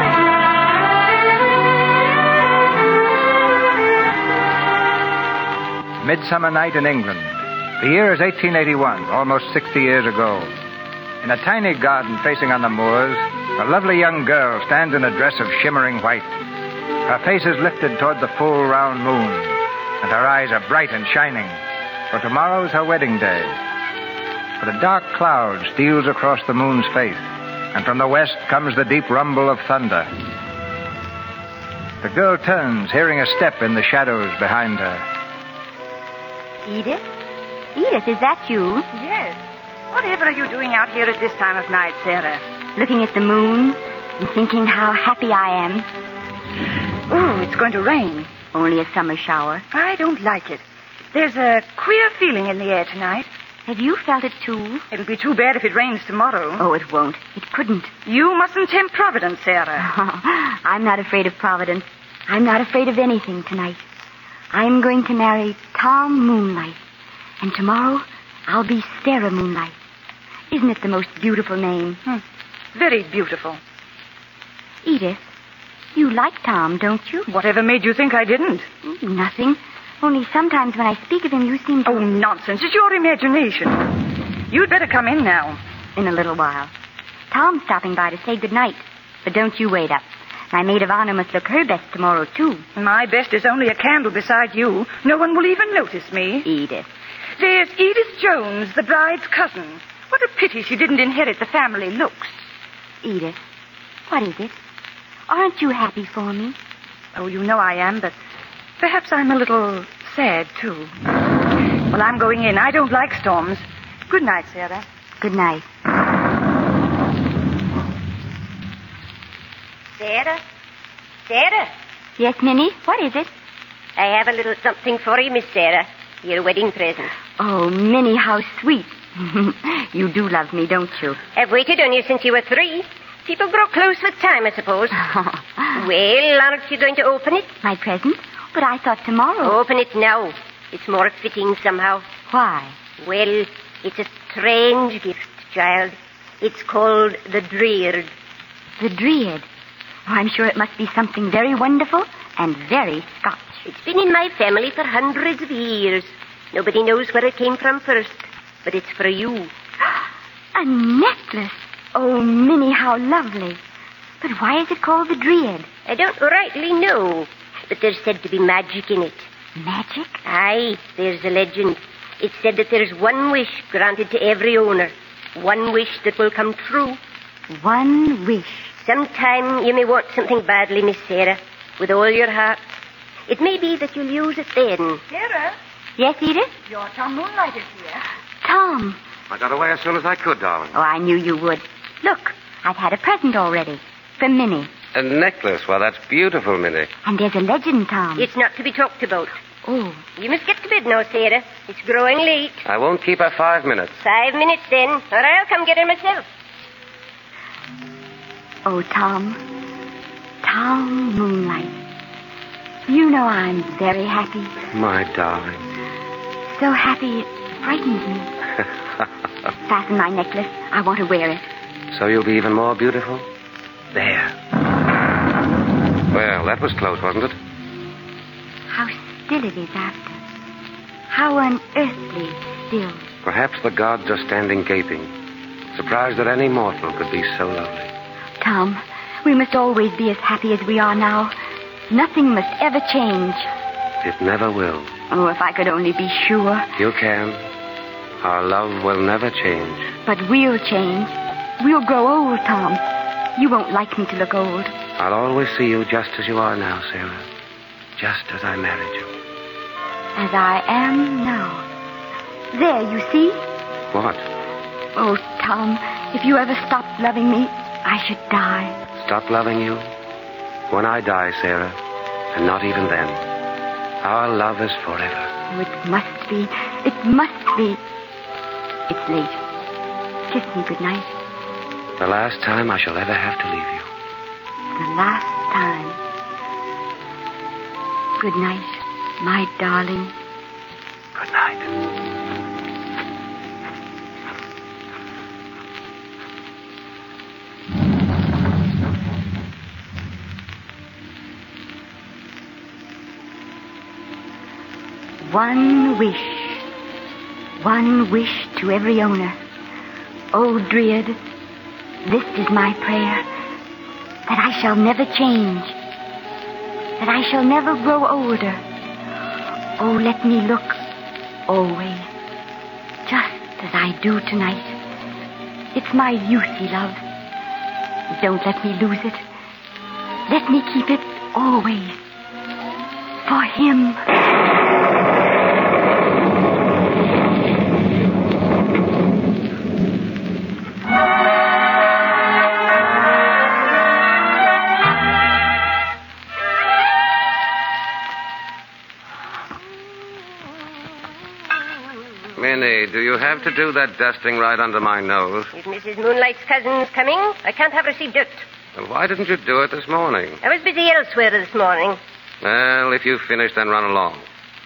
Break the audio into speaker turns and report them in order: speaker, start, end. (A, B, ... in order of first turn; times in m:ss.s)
0:06.0-0:10.5 A
0:11.2-0:16.3 A
0:17.1-0:21.6 A
0:22.1-0:23.6 A
0:24.6-0:27.2 A
0:27.7-0:30.1 A
0:32.0-0:35.0 A
0:36.6-0:37.1 B
0:37.8-0:38.9 B
0:38.9-0:39.4 C
0:39.9-0:42.4 C
0:42.8-0:45.9 B
0:47.1-0:48.3 C
0:48.5-0:49.6 B
0:49.7-0:50.6 C
0:51.1-0:53.3 C
0:53.7-0:54.8 B
0:54.9-0:56.6 C
0:56.6-0:57.9 B
0:58.1-0:59.9 C
0:59.8-1:03.8 B
1:04.5-1:06.8 B
1:07.4-1:09.8 B
1:10.5-1:12.0 B
1:12.7-1:13.6 C
1:14.8-1:15.2 B
1:16.0-1:17.3 B
1:17.3-1:18.7 C
1:18.8-1:22.1 B
1:21.9-1:24.0 C
1:24.5-1:25.6 C
1:26.0-1:26.7 B
1:27.3-1:32.6 B
1:32.8-1:36.5 C
1:36.4-1:36.9 B
1:37.4-1:42.4 C
1:43.0-1:43.4 B
1:44.1-1:44.5 B
1:45.3-1:46.6 B
1:47.2-1:48.2 C
1:48.8-1:50.9 C
1:51.9-1:54.8 C
1:55.2-1:55.7 B
2:00.0-2:00.4 D
2:01.3-2:01.7 D
2:02.2-2:03.3 B
2:04.0-2:07.1 D
2:07.4-2:11.2 B
2:11.4-2:15.0 D
2:15.7-2:17.5 D
2:17.6-2:19.6 B
2:19.4-2:22.0 D
2:22.3-2:22.8 B
2:23.0-2:28.1 D
2:28.8-2:29.5 B
2:30.1-2:33.6 B
2:33.7-2:39.5 D
2:40.6-2:43.6 B
2:44.2-2:45.7 B
2:45.8-2:49.3 D
2:49.6-2:50.2 B
2:50.2-2:57.0 D
2:57.5-2:58.7 B
2:58.8-3:02.6 D
3:03.3-3:05.0 D
3:05.1-3:05.6 C
3:06.0-3:06.5 B
3:06.7-3:08.0 C
3:08.4-3:09.0 B
3:09.3-3:10.7 E
3:10.7-3:14.7 B
3:14.9-3:16.9 E
3:17.0-3:18.3 B
3:18.2-3:19.3 D
3:19.6-3:20.0 B
3:20.2-3:22.6 D
3:22.6-3:24.0 E
3:24.0-3:26.2 D
3:28.6-3:29.4 B
3:30.4-3:31.8 B
3:32.9-3:34.6 B
3:34.7-3:35.7 E
3:36.5-3:38.3 B
3:39.7-3:41.4 B
3:41.9-3:43.2 E
3:43.9-3:44.3 E
3:46.1-3:47.4 E
3:48.7-3:50.2 B
3:51.1-3:53.0 B
3:53.2-3:55.1 E
3:55.7-3:57.9 E
3:58.4-4:01.3 B
4:01.9-4:03.5 B
4:04.0-4:04.9 E
4:05.1-4:06.7 B
4:06.8-4:07.4 E
4:08.2-4:09.9 E
4:10.1-4:12.8 B
4:13.4-4:14.7 B
4:15.0-4:17.2 E
4:18.0-4:19.1 E
4:20.2-4:21.6 B
4:22.5-4:23.4 B
4:23.9-4:24.2 E
4:25.0-4:28.8 B
4:29.0-4:29.8 E
4:30.7-4:31.8 E
4:32.3-4:33.2 E
4:34.0-4:35.3 E
4:35.5-4:37.8 B
4:38.9-4:39.4 B
4:40.3-4:41.2 B
4:42.0-4:43.9 E
4:44.8-4:46.0 B
4:48.2-4:50.1 B
4:51.2-4:51.7 E
5:05.2-5:06.6 B
5:07.6-5:09.4 B
5:10.3-5:11.2 B
5:12.0-5:13.2 B
5:14.3-5:15.8 B
5:17.0-5:18.6 B
5:19.8-5:20.8 B
5:21.5-5:22.1 B
5:23.1-5:24.8 B
5:25.7-5:27.0 B
5:28.2-5:29.2 B
5:30.3-5:32.0 B
5:33.2-5:34.0 B
5:52.4-5:55.5 E
5:55.5-5:58.4 D
5:58.8-6:00.4 E
6:00.4-6:02.0 D
6:02.4-6:04.2 E